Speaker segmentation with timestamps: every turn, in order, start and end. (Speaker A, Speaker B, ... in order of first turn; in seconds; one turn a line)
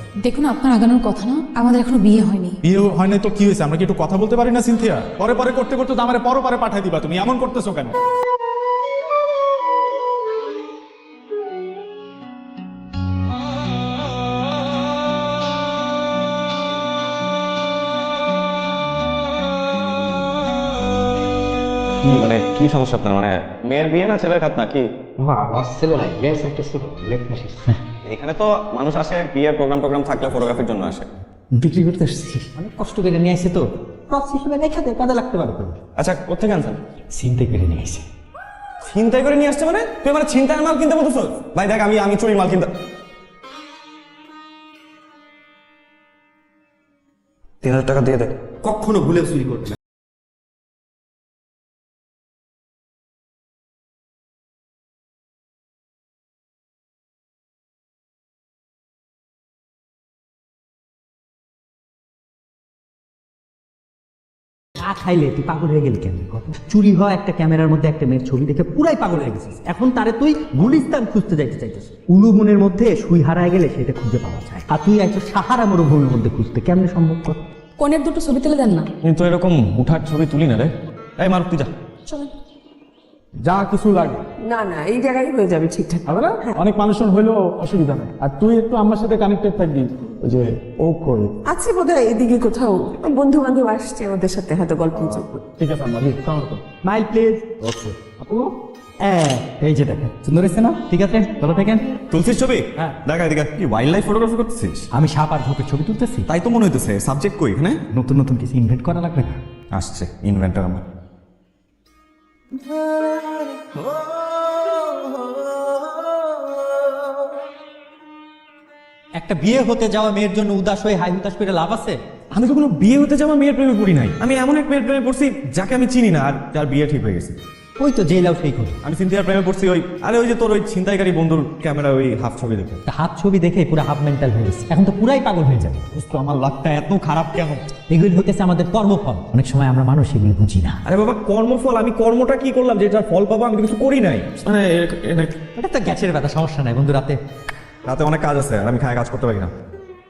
Speaker A: 0.2-2.6
Speaker B: 2.6-8.0
Speaker C: 22.0-24.9
Speaker D: 25.2-27.8
Speaker C: 28.1-31.1
Speaker D: 31.6-35.8
Speaker C: 36.0-36.8
Speaker D: 37.1-38.0
Speaker C: 38.8-42.7
Speaker C: 47.6-48.4
Speaker D: 48.6-49.7
Speaker D: 64.8-77.4
Speaker E: 77.9-78.6
Speaker C: 79.0-81.7
Speaker B: 83.4-84.2
Speaker E: 84.5-86.6
Speaker B: 86.1-91.3
Speaker E: 91.5-95.5
Speaker D: 95.6-98.5
Speaker D: 99.0-102.0
Speaker C: 102.1-104.9
Speaker D: 104.9-106.3
Speaker C: 106.3-107.8
Speaker D: 107.9-109.4
Speaker C: 109.7-110.8
Speaker D: 119.2-122.0
Speaker C: 122.3-127.4
Speaker D: 127.8-128.8
Speaker C: 128.8-132.8
Speaker D: 132.9-135.9
Speaker C: 135.9-137.7
Speaker D: 137.8-140.8
Speaker C: 140.8-145.4
Speaker D: 145.6-147.2
Speaker C: 147.8-149.5